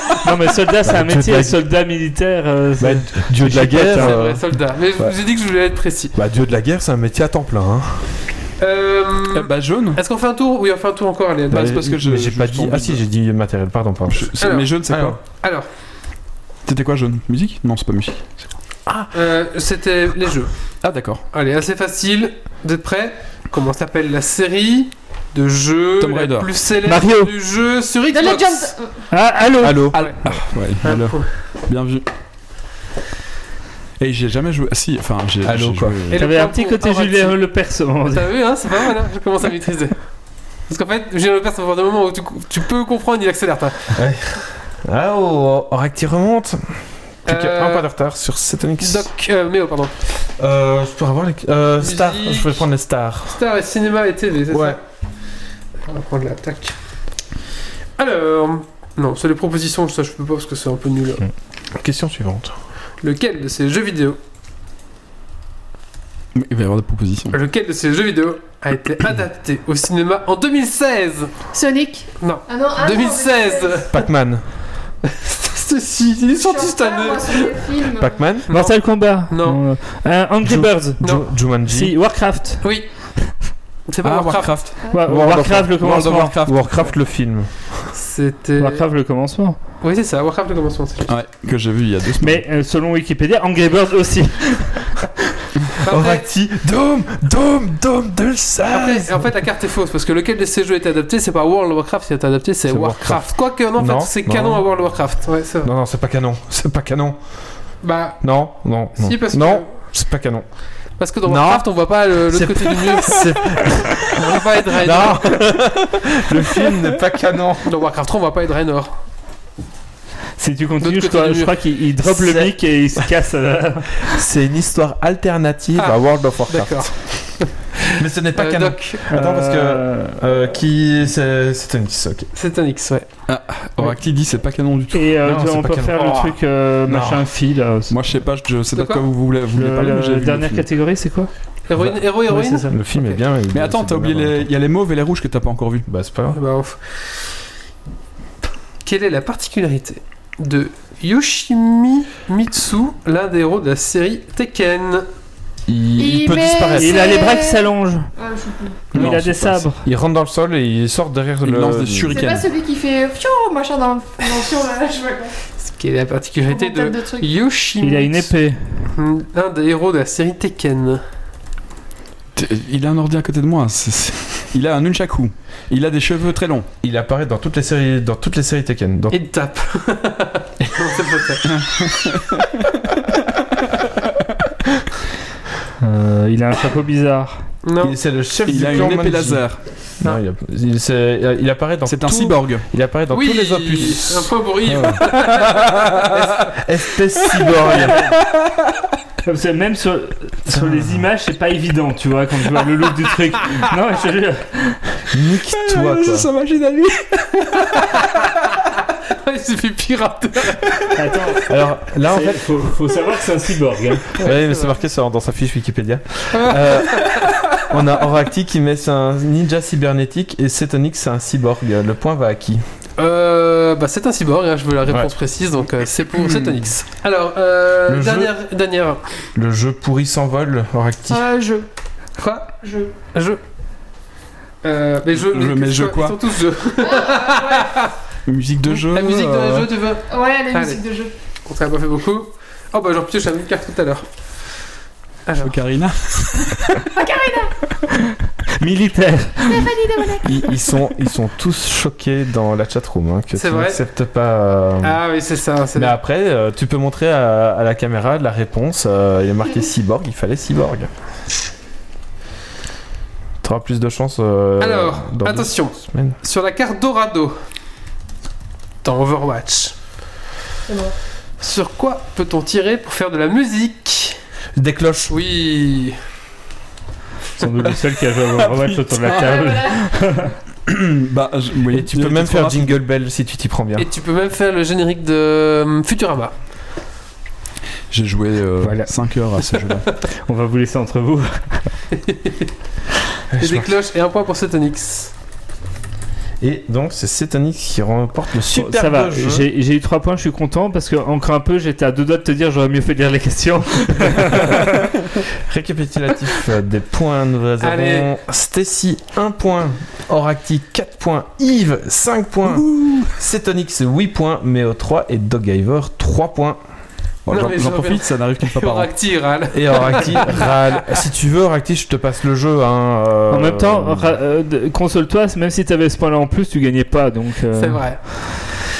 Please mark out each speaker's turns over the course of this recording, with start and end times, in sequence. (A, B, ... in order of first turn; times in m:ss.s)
0:00.2-0:04.2 A
0:00.8-0:01.6 B
0:02.8-0:05.2 B
0:03.9-0:06.1 C
0:06.1-0:08.2 B
0:08.6-0:11.9 C
0:09.3-0:10.0 D
0:11.5-0:13.0 D
0:11.5-0:15.2 B
0:14.2-0:15.2 D
0:14.4-0:15.6 C
0:16.6-0:18.5 D
0:18.8-0:19.1 B
0:19.1-0:20.7 C
0:20.8-0:21.2 D
0:21.3-0:28.7 C
0:26.0-0:26.5 D
0:26.8-0:27.3 A
0:28.1-0:29.0 E
0:29.1-0:30.0 A
0:29.6-0:30.4 B
0:29.9-0:31.3 C
0:29.9-0:32.0 D
0:34.0-0:36.1 D
0:35.4-0:36.1 B
0:36.1-0:37.5 C
0:36.2-0:38.3 A
0:38.1-0:43.9 C
0:43.9-0:49.1 B
0:47.2-0:47.9 C
0:48.8-0:49.9 C
0:50.4-0:53.4 B
0:51.8-0:52.6 C
0:53.3-0:54.8 C
0:54.5-0:54.8 B
0:55.8-0:56.8 C
0:58.0-1:01.3 C
1:01.8-1:02.5 B
1:03.0-1:04.2 C
1:06.3-1:07.3 D
1:07.3-1:11.4 C
1:11.5-1:13.9 E
1:12.2-1:14.0 C
1:13.9-1:14.5 B
1:15.1-1:17.6 C
1:16.4-1:18.2 E
1:17.9-1:18.5 B
1:18.5-1:19.6 C
1:18.5-1:22.8 A
1:20.4-1:21.9 B
1:22.6-1:22.9 C
1:23.9-1:24.6 C
1:24.0-1:24.9 D
1:24.9-1:26.3 A
1:25.0-1:27.9 B
1:25.8-1:26.7 D
1:27.9-1:28.8 C
1:28.6-1:29.6 A
1:29.8-1:31.1 C
1:31.1-1:32.4 D
1:32.2-1:35.0 A
1:35.8-1:36.3 C
1:35.9-1:39.3 B
1:38.7-1:45.7 C
1:42.7-1:54.2 B
1:47.8-1:48.2 C
1:49.0-1:49.8 C
1:51.0-1:53.3 C
1:54.1-1:55.5 C
1:54.7-1:57.7 B
1:57.6-1:59.0 C
2:00.4-2:04.2 A
2:00.8-2:01.5 C
2:02.0-2:03.1 B
2:04.0-2:12.3 B
2:05.8-2:09.1 C
2:09.1-2:10.2 A
2:12.3-2:13.1 C
2:13.3-2:15.1 D
2:14.9-2:18.0 A
2:15.2-2:17.3 B
2:17.9-2:20.6 D
2:18.7-2:19.0 C
2:19.5-2:21.3 A
2:21.7-2:23.1 C
2:21.7-2:24.5 B
2:23.5-2:25.9 D
2:25.9-2:26.4 B
2:26.3-2:27.3 C
2:28.8-2:35.0 C
2:35.7-2:37.2 B
2:36.0-2:38.9 E
2:36.8-2:38.1 A
2:38.9-2:39.9 A
2:38.9-2:42.2 B
2:38.9-2:39.6 D
2:41.4-2:42.5 D
2:42.1-2:45.3 E
2:45.6-2:48.3 C
2:46.5-2:47.3 E
2:47.8-2:48.9 A
2:48.9-2:51.0 C
2:52.4-2:56.7 D
2:56.8-2:59.2 B
2:59.1-3:01.4 C
3:01.5-3:02.6 D
3:05.8-3:07.5 A
3:07.6-3:08.0 C
3:07.8-3:18.0 B
3:08.5-3:09.6 D
3:11.8-3:12.7 D
3:13.1-3:16.6 C
3:14.7-3:15.0 D
3:17.9-3:18.5 D
3:19.2-3:25.1 A
3:20.5-3:21.0 B
3:25.1-3:26.3 B
3:25.6-3:28.0 D
3:27.7-3:28.0 C
3:28.6-3:30.9 C
3:31.0-3:34.2 A
3:31.5-3:32.7 B
3:34.1-3:42.6 B
3:34.2-3:34.7 C
3:36.3-3:37.4 C
3:43.0-3:49.0 C
3:44.9-3:45.1 B
3:46.1-3:46.6 D
3:47.8-3:48.3 B
3:49.3-3:51.3 B
3:51.1-3:51.6 E
3:52.2-3:53.4 C
3:52.6-3:52.9 E
3:54.6-3:57.9 C
3:55.1-3:56.3 D
3:56.8-3:57.9 E
3:58.2-3:59.7 D
3:58.6-4:00.8 C
4:00.1-4:01.1 E
4:01.4-4:04.0 C
4:05.2-4:05.6 C
4:05.4-4:06.9 D
4:07.0-4:07.5 E
4:08.6-4:09.7 A
4:09.4-4:10.6 E
4:10.2-4:15.0 B
4:13.3-4:13.8 C
4:14.8-4:15.9 C
4:15.7-4:20.9 B
4:23.4-4:26.2 B
4:24.6-4:27.4 C
4:28.8-4:29.7 C
4:30.7-4:30.9 E
4:31.4-4:34.2 C
4:34.6-4:35.2 B
4:35.1-4:36.0 C
4:37.4-4:40.3 A
4:38.3-4:39.4 D
4:39.0-4:40.2 E
4:40.7-4:42.8 D
4:41.6-4:43.9 B
4:43.8-4:46.3 C
4:47.9-4:49.9 D
4:48.6-4:49.4 A
4:50.0-4:51.8 A
4:51.9-4:52.5 C
4:53.3-4:53.7 B
4:53.4-4:55.1 C
4:56.4-4:59.5 B
4:58.5-5:04.8 A
5:05.4-5:16.6 B
5:07.6-5:08.1 C
5:12.5-5:13.1 D
5:17.2-5:19.1 D
5:17.3-5:20.5 C
5:19.5-5:24.2 B
5:23.3-5:28.2 A
5:27.5-5:28.6 C